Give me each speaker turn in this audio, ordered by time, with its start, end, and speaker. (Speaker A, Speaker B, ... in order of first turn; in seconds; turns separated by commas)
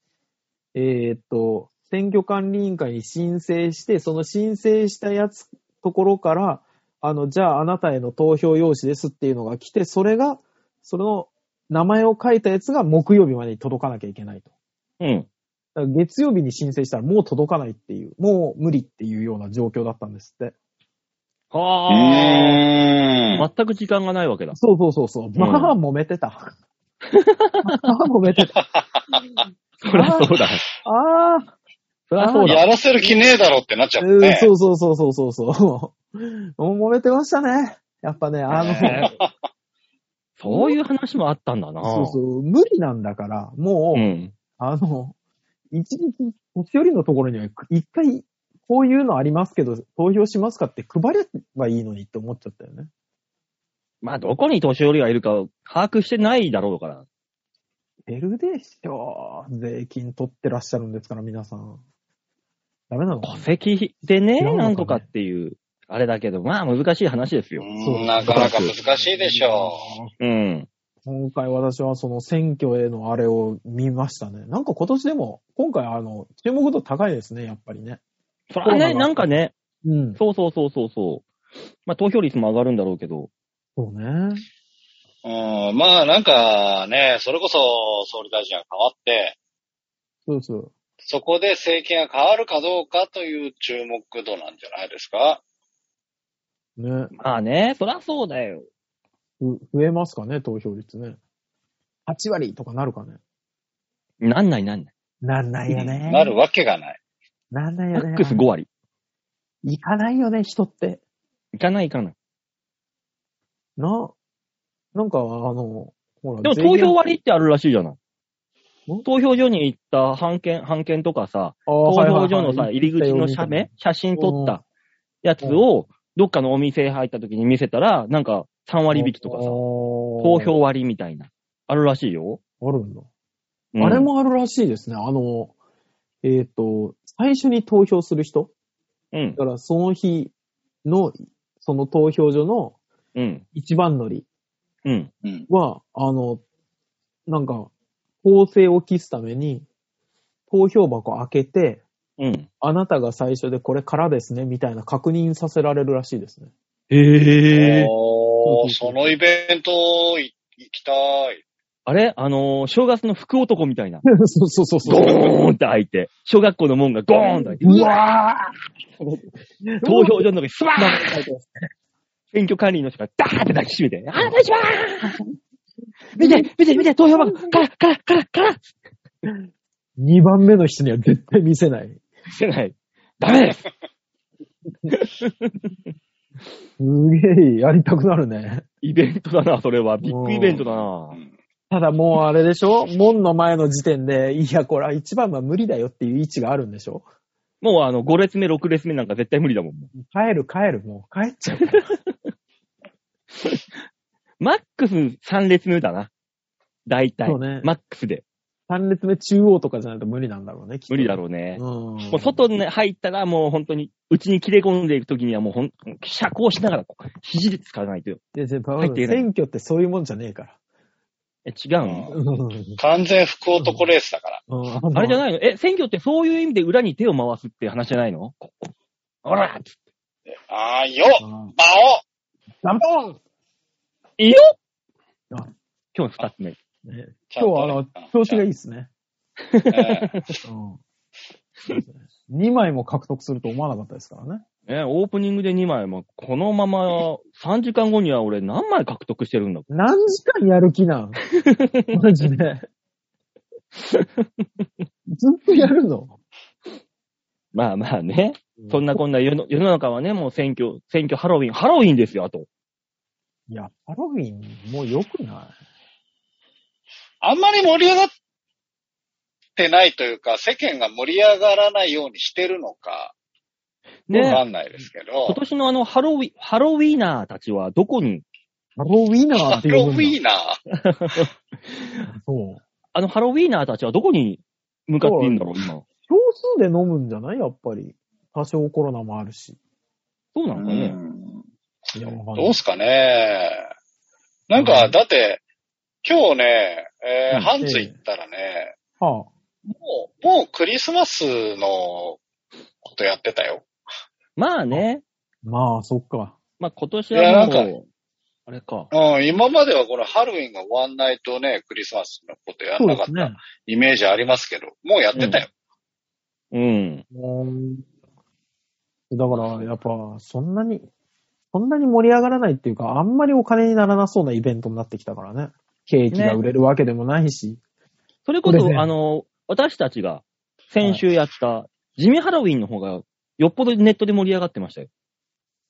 Speaker A: 0.7-14.5, Speaker B: 15.0-15.3, Speaker A: 15.7-20.5, Speaker B: 21.5-22.6, Speaker C: 21.9-23.4, Speaker B: 23.4-24.6, Speaker A: 24.5-26.5, Speaker B: 25.4-25.7, Speaker B: 27.1-27.8, Speaker A: 27.6-28.6, Speaker C: 28.6-29.2, Speaker B: 29.8-30.6, Speaker A: 29.9-31.5, Speaker B: 32.1-32.6, Speaker A: 32.2-33.1, Speaker C: 32.5-34.5, Speaker A: 34.0-39.0, Speaker C: 38.5-39.3, Speaker B: 38.7-39.1, Speaker B: 40.4-42.2, Speaker A: 40.5-40.8, Speaker A: 41.8-45.1, Speaker B: 43.9-44.3, Speaker A: 45.7-52.9, Speaker B: 54.0-57.0, Speaker A: 58.1-61.8, Speaker A: 62.9-63.5, Speaker B: 63.2-67.7, Speaker A: 64.4-65.0, Speaker C: 67.6-69.9, Speaker A: 67.8-70.1, Speaker B: 68.3-68.7, Speaker B: 70.2-70.7, Speaker A: 71.0-78.0, Speaker B: 78.5-79.5, Speaker A: 78.6-79.2, Speaker A: 79.8-80.2, Speaker B: 80.2-81.2, Speaker B: 81.8-83.3, Speaker A: 83.8-84.4, Speaker C: 85.2-89.3, Speaker A: 90.3-90.7, Speaker C: 91.0-95.4, Speaker A: 96.8-97.1, Speaker B: 97.2-98.7, Speaker A: 99.4-101.2, Speaker A: 102.1-103.2, Speaker B: 104.2-104.9, Speaker A: 105.2-106.3, Speaker C: 106.0-107.0, Speaker A: 107.5-108.4, Speaker B: 107.9-108.7, Speaker A: 109.6-111.0, Speaker B: 111.5-112.1, Speaker A: 113.8-114.1, Speaker A: 114.9-117.0, Speaker B: 116.4-118.0, Speaker B: 119.0-124.6, Speaker A: 121.7-124.6, Speaker B: 125.2-129.6, Speaker A: 128.9-130.5, Speaker B: 130.2-132.4, Speaker A: 132.6-133.1, Speaker B: 133.7-134.1, Speaker A: 133.8-135.5, Speaker A: 136.2-138.5, Speaker B: 139.1-139.4, Speaker A: 139.4-140.3, Speaker A: 140.8-142.8, Speaker B: 143.1-143.4, Speaker A: 143.5-144.2, Speaker B: 144.8-145.1, Speaker C: 145.2-145.5, Speaker A: 145.5-146.4, Speaker A: 147.3-147.7, Speaker A: 148.2-149.7, Speaker A: 150.5-151.8, Speaker B: 152.2-152.5, Speaker A: 152.6-156.5, Speaker B: 156.9-157.9, Speaker C: 157.5-161.4, Speaker A: 158.4-159.1, Speaker B: 161.8-164.0, Speaker A: 164.0-165.3, Speaker B: 164.8-168.5, Speaker A: 167.1-168.0, Speaker A: 169.0-171.6, Speaker B: 169.8-171.2, Speaker B: 172.3-175.2, Speaker B: 176.1-178.7, Speaker A: 176.2-177.6, Speaker A: 180.0-182.0, Speaker B: 182.3-183.7, Speaker B: 184.9-185.7, Speaker A: 186.8-188.6, Speaker B: 188.8-191.2, Speaker A: 190.0-190.6, Speaker C: 190.6-191.3, Speaker A: 191.7-197.0, Speaker B: 197.6-199.9, Speaker A: 199.9-201.9, Speaker B: 204.4-206.1, Speaker B: 206.8-208.2, Speaker A: 207.2-207.7, Speaker A: 208.7-212.4, Speaker B: 210.9-218.2, Speaker A: 218.3-220.6, Speaker B: 218.8-219.3, Speaker B: 221.4-222.1, Speaker C: 221.8-222.2, Speaker A: 222.1-222.8, Speaker C: 222.8-224.4, Speaker A: 223.5-223.9, Speaker A: 224.5-225.2, Speaker B: 224.9-228.7, Speaker B: 229.2-229.7, Speaker C: 230.3-232.0, Speaker A: 231.2-231.5, Speaker A: 232.6-233.2, Speaker B: 234.2-234.4, Speaker B: 235.9-236.6, Speaker A: 236.8-238.9, Speaker C: 237.3-238.4, Speaker B: 239.4-240.4, Speaker C: 239.7-240.1, Speaker A: 240.4-240.8, Speaker A: 241.7-244.4, Speaker B: 244.7-249.7, Speaker A: 249.7-251.2, Speaker B: 251.4-251.9, Speaker A: 251.9-252.6, Speaker B: 253.8-254.4, Speaker A: 255.1-256.1, Speaker B: 257.5-262.5, Speaker A: 258.6-259.0, Speaker A: 263.5-265.5, Speaker C: 267.2-268.1, Speaker C: 269.6-273.1, Speaker B: 274.1-274.4, Speaker A: 274.1-274.4, Speaker C: 274.2-275.4, Speaker B: 275.3-278.2, Speaker A: 278.8-280.2, Speaker C: 279.4-280.6, Speaker B: 280.7-282.1, Speaker A: 282.1-282.6, Speaker B: 282.9-285.8, Speaker A: 285.0-289.6, Speaker B: 290.3-291.0, Speaker C: 290.6-291.4, Speaker A: 291.9-292.6, Speaker C: 292.3-293.6, Speaker C: 294.5-295.4, Speaker A: 294.6-294.9, Speaker C: 296.0-298.7, Speaker A: 297.3-297.9, Speaker A: 299.0-299.3, Speaker C: 299.6-302.2, Speaker C: 302.8-303.6, Speaker B: 304.4-305.0, Speaker A: 305.4-306.4, Speaker B: 306.6-307.9, Speaker C: 307.1-307.7, Speaker B: 308.5-308.9, Speaker C: 308.9-315.5, Speaker A: 312.8-313.4, Speaker B: 315.1-315.4, Speaker B: 316.5-317.0, Speaker A: 317.1-317.8, Speaker A: 319.1-320.9, Speaker A: 321.5-327.6, Speaker B: 326.1-326.4, Speaker B: 328.2-334.9, Speaker A: 328.4-328.9